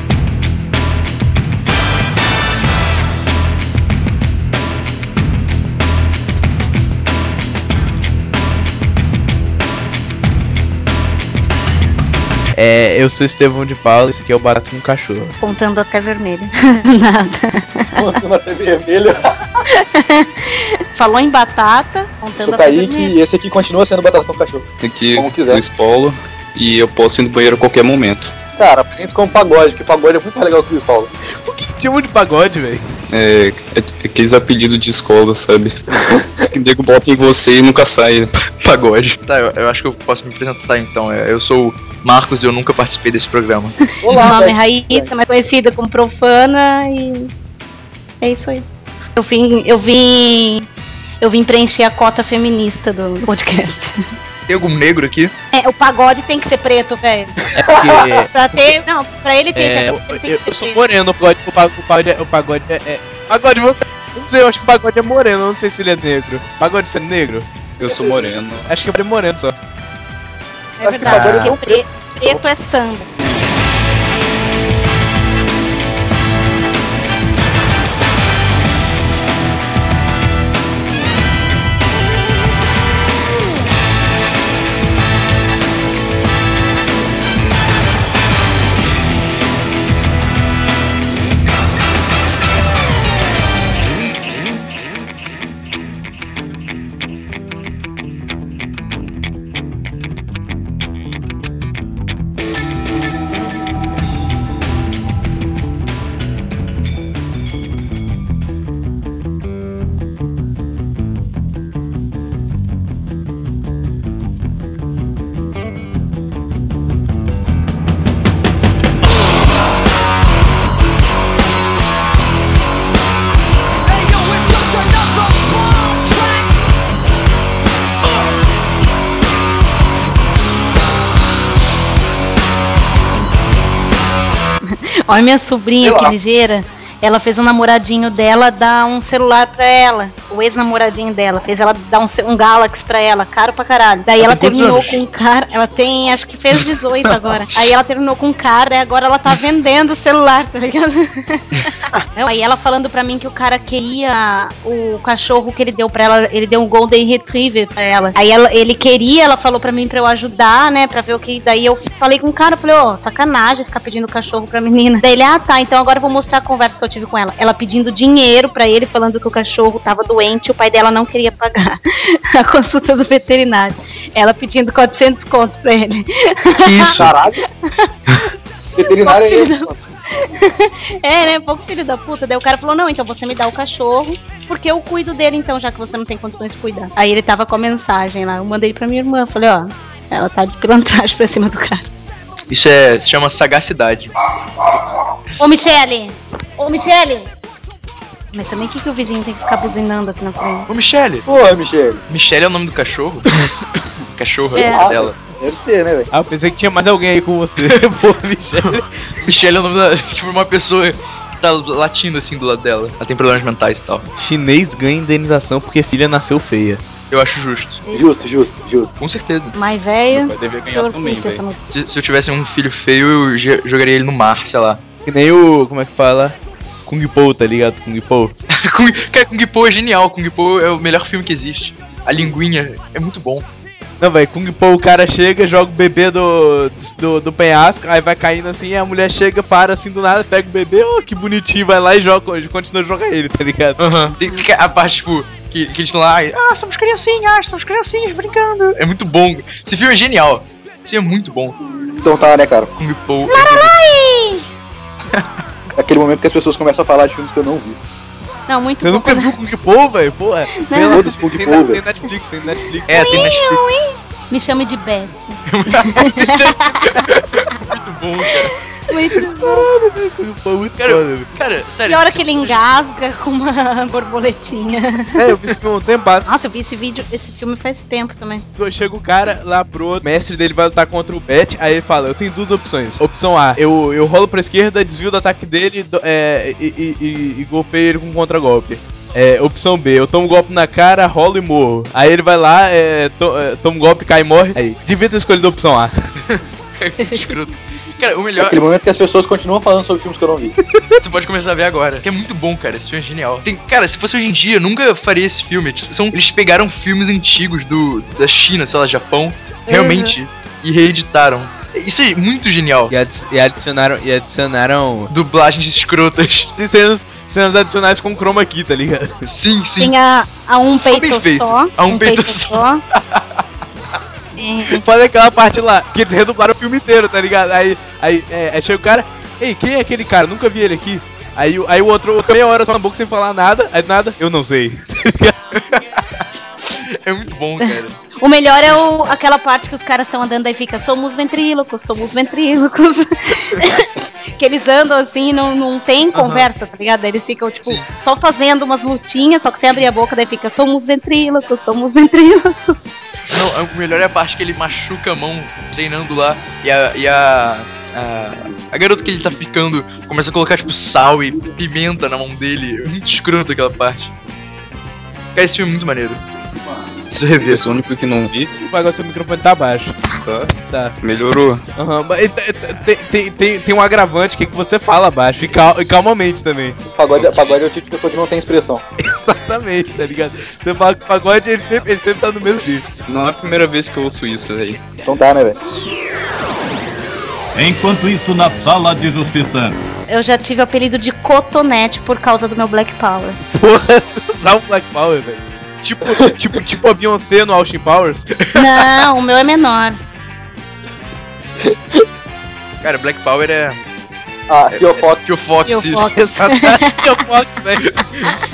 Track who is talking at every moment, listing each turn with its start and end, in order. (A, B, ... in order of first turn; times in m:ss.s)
0:12.5-0:15.4 A
0:15.4-0:18.1 B
0:18.0-0:19.2 C
0:19.7-0:23.1 B
0:22.4-0:25.6 C
0:24.8-0:28.3 D
0:28.6-0:31.1 C
0:31.4-0:32.8 A
0:33.1-0:38.3 D
0:36.0-0:36.3 C
0:38.4-0:43.8 E
0:44.0-0:45.1 C
0:44.0-0:47.3 B
0:48.2-0:50.7 B
0:51.2-0:54.0 B
0:54.5-0:55.3 E
0:55.5-0:57.5 B
0:57.5-0:58.3 A
0:57.6-0:58.2 C
0:58.3-1:00.8 B
0:59.5-1:07.5 A
1:07.8-1:08.7 D
1:08.7-1:09.6 A
1:10.8-1:13.1 B
1:10.8-1:12.4 C
1:11.1-1:11.5 A
2:14.6-2:57.0 B
2:15.8-2:16.2 C
2:24.2-2:25.0 E
2:31.6-2:32.0 E
2:56.6-2:57.1 E
2:56.9-2:57.4 C
2:57.6-2:57.9 B
2:58.8-2:59.8 C
2:59.0-3:11.9 B
3:12.5-3:14.1 E
3:15.4-3:17.3 B
3:18.3-3:20.7 B
3:20.7-3:21.3 E
3:21.3-3:22.0 C
3:22.1-3:23.2 E
3:24.1-3:25.1 E
3:24.4-3:26.1 C
3:24.5-3:24.9 B
3:26.1-3:28.9 A
3:29.2-3:34.1 E
3:34.2-3:36.8 A
3:37.1-3:37.8 E
3:37.9-3:38.9 C
3:39.0-3:39.5 E
3:39.5-3:41.6 B
3:40.1-3:41.4 D
3:41.7-3:44.8 E
3:45.0-3:46.4 A
3:46.9-3:48.3 A
3:48.5-3:53.4 E
3:54.0-4:03.8 A
4:03.8-4:11.6 E
4:04.2-4:04.4 B
4:12.0-4:12.7 C
4:12.8-4:13.8 E
4:13.3-4:14.4 B
4:15.8-4:17.8 C
4:18.5-4:19.4 B
4:18.8-4:23.4 A
4:20.7-4:21.0 B
4:20.9-4:21.8 C
4:22.9-4:23.6 E
4:22.9-4:27.0 B
4:25.5-4:28.6 E
4:28.9-4:29.7 B
4:29.4-4:31.3 A
4:30.8-4:32.6 E
4:31.9-4:35.3 B
4:35.2-4:36.3 A
4:36.2-4:38.4 B
4:38.6-4:55.9 A
4:56.3-4:58.6 E
4:57.0-4:57.4 B
4:58.4-5:00.6 C
5:01.0-5:12.9 E
5:09.7-5:10.1 B
5:12.9-5:15.1 A
5:15.1-5:16.5 E
5:16.5-5:19.1 A
5:19.2-5:19.9 E
5:19.8-5:22.8 B
5:20.9-5:23.2 E
5:24.4-5:24.8 B
5:24.7-5:35.4 A
5:35.5-5:36.0 E
5:36.8-5:38.0 E
5:37.6-5:52.8 B
5:53.3-6:04.1 E
6:05.3-6:06.2 E
6:06.5-6:07.0 C
6:07.1-6:07.7 E
6:07.4-6:08.5 D
6:08.6-6:10.0 A
6:10.1-6:11.6 D
6:10.6-6:11.0 A
6:11.8-6:16.8 A
6:16.9-6:18.8 C
6:19.0-6:22.8 A
6:23.1-6:24.8 D
6:25.0-6:25.6 C
6:27.5-6:29.8 F
6:30.1-6:33.4 B
6:33.5-6:38.3 A
6:38.4-6:38.9 E
6:38.5-6:40.0 B
6:42.8-6:43.8 E
6:44.5-6:45.2 C
6:44.7-6:46.1 E
6:45.6-6:47.2 B
6:46.2-6:47.9 A